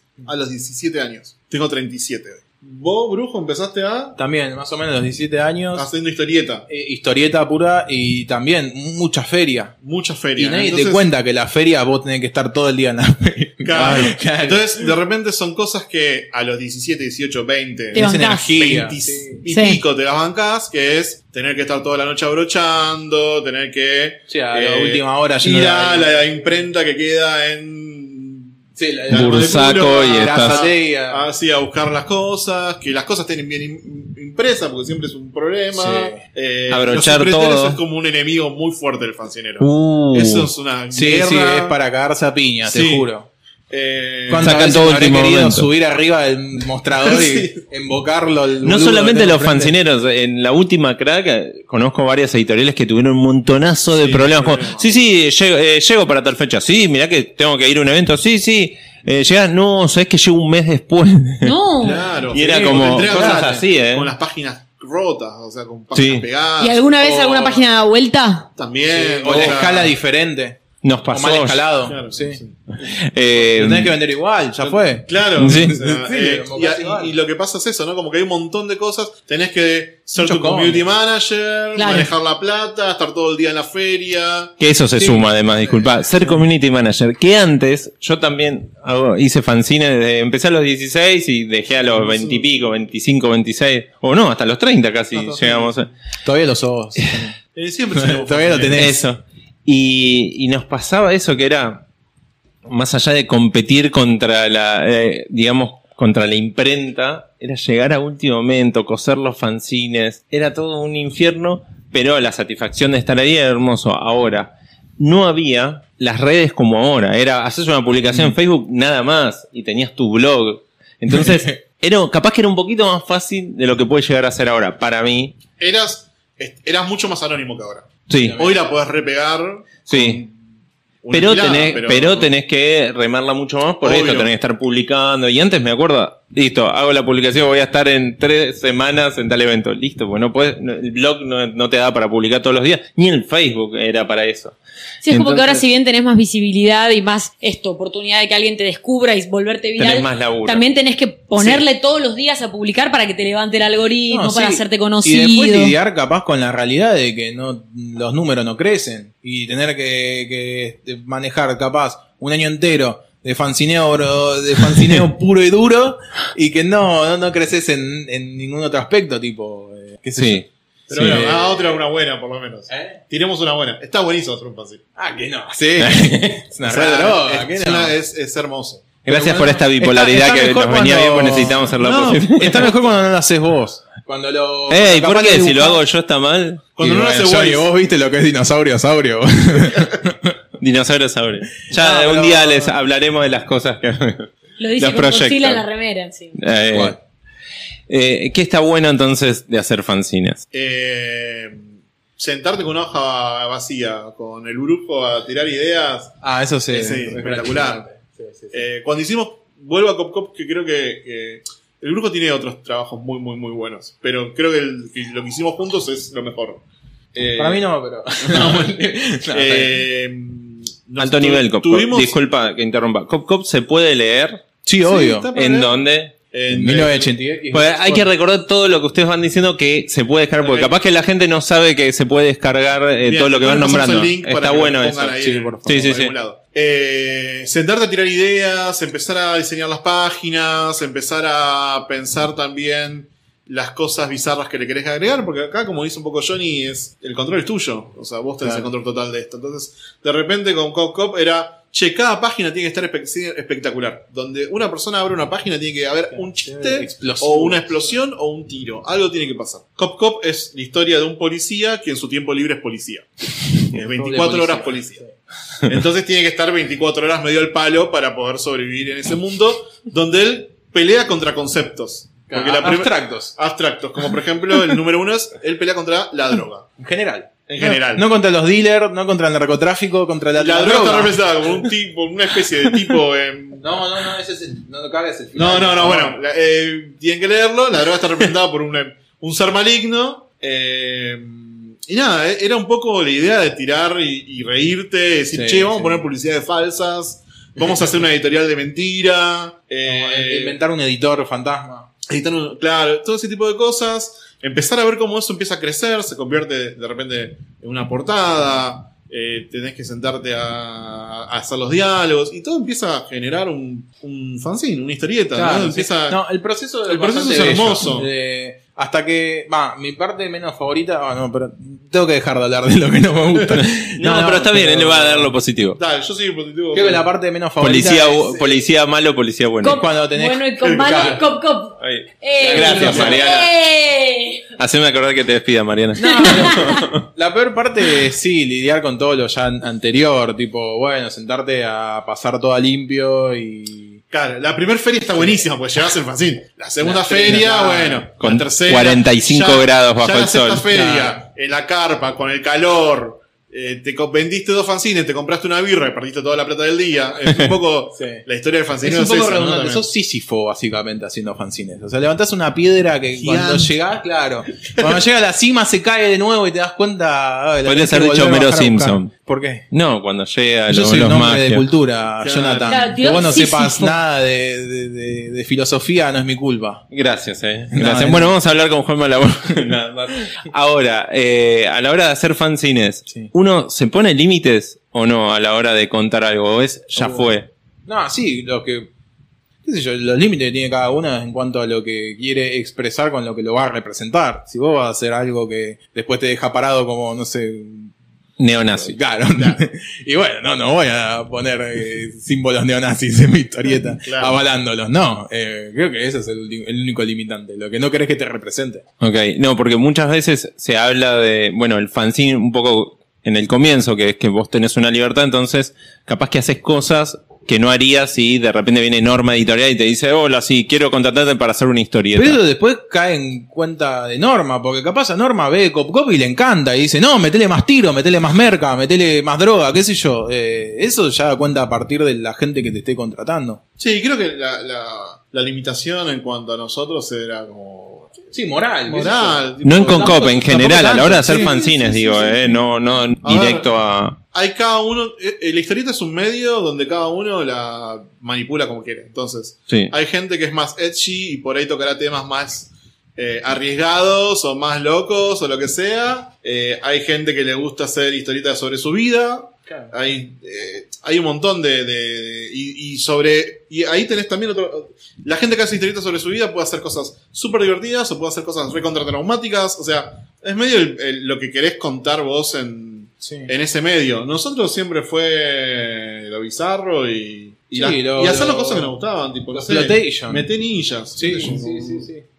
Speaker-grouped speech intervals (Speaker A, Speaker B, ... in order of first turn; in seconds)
Speaker A: 0.2-4.2, 5.7-6.7, 9.8-11.1, 13.6-28.5, 29.1-41.8, 42.6-43.1, 43.7-44.7, 47.0-47.6, 54.0-55.0, 61.8-67.6, 68.5-69.9, 71.8-72.9, 74.6-84.5, 91.9-92.4, 95.1-95.8, 97.5-99.0, 125.6-130.3, 131.0-132.3, 133.8-134.3, 170.9-174.8, 176.6-179.0, 181.8-182.6, 186.8-187.7, 200.5-201.6, 202.2-206.1, 206.7-207.9, 208.5-217.7, 218.2-218.7, 219.3-222.2, 224.8-227.1, 230.4-230.7, 233.0-265.0, 265.6-276.6, 277.5-278.1, 280.4-283.6, 285.3-300.6, 302.1-316.2, 316.9-318.1, 325.8-327.1, 330.6-331.2, 344.1-359.8, 363.2-363.7, 372.2-373.4, 399.4-399.6, 404.0-404.4, 433.8-438.2, 438.9-442.6, 443.2-443.7, 444.3-482.1
Speaker B: 4.2-5.9, 6.7-9.7, 10.4-14.9, 17.9-19.4, 24.3-26.1, 28.8-31.3, 35.7-36.2, 40.9-43.3, 44.3-49.7, 62.4-63.6, 68.9-72.4, 73.4-77.2, 80.1-80.9, 85.0-86.4, 96.2-97.3, 97.9-99.0, 118.1-118.3, 121.1-121.5, 128.2-128.6, 154.1-171.8, 172.7-173.0, 175.0-177.9, 179.1-185.8, 186.8-190.3, 191.7-192.7, 196.7-197.0, 206.2-208.6, 217.3-219.8, 224.6-225.3, 226.5-228.1, 235.2-235.8, 248.4-248.7, 256.1-257.9, 263.8-265.1, 272.3-273.3, 276.8-281.6, 283.6-286.2, 295.3-296.1, 299.8-301.9, 315.3-325.3, 326.7-328.6, 329.6-331.2, 332.4-333.3, 336.0-344.0, 346.8-348.1, 350.7-351.2, 358.0-358.2, 358.8-369.6, 370.7-376.8, 377.7-378.4, 386.9-387.3, 387.9-388.9, 389.6-397.9, 398.8-408.8, 422.1-433.6, 438.3-441.7, 473.2-473.5, 477.7-478.9, 479.5-480.5, 481.1-482.2
Speaker C: 17.9-18.6, 19.5-19.8, 61.4-62.0, 66.6-68.5, 81.7-82.1, 145.0-155.7, 194.6-196.4, 329.6-334.4, 336.0-336.8, 372.6-373.9
Speaker D: 29.1-30.6, 36.7-37.8, 39.6-40.5, 44.4-45.7, 48.6-61.6, 62.3-64.1, 65.9-66.2, 69.2-69.6, 70.8-71.7, 72.8-73.9, 75.3-75.8, 84.6-95.9, 98.7-101.8, 102.7-125.4, 128.1-128.4, 129.9-130.2, 131.1-144.6, 145.1-145.6, 149.8-150.6, 170.2-170.4, 175.8-176.4, 179.0-182.7, 184.7-186.7, 190.6-195.6, 196.4-197.0, 197.9-200.4, 221.0-224.4, 225.3-226.1, 227.5-236.1, 323.6-325.8, 327.6-329.8, 331.8-333.5, 334.6-337.1, 348.2-350.6, 367.6-369.1, 369.7-371.7, 376.9-387.5, 398.4-399.0, 409.0-422.4, 439.6-444.2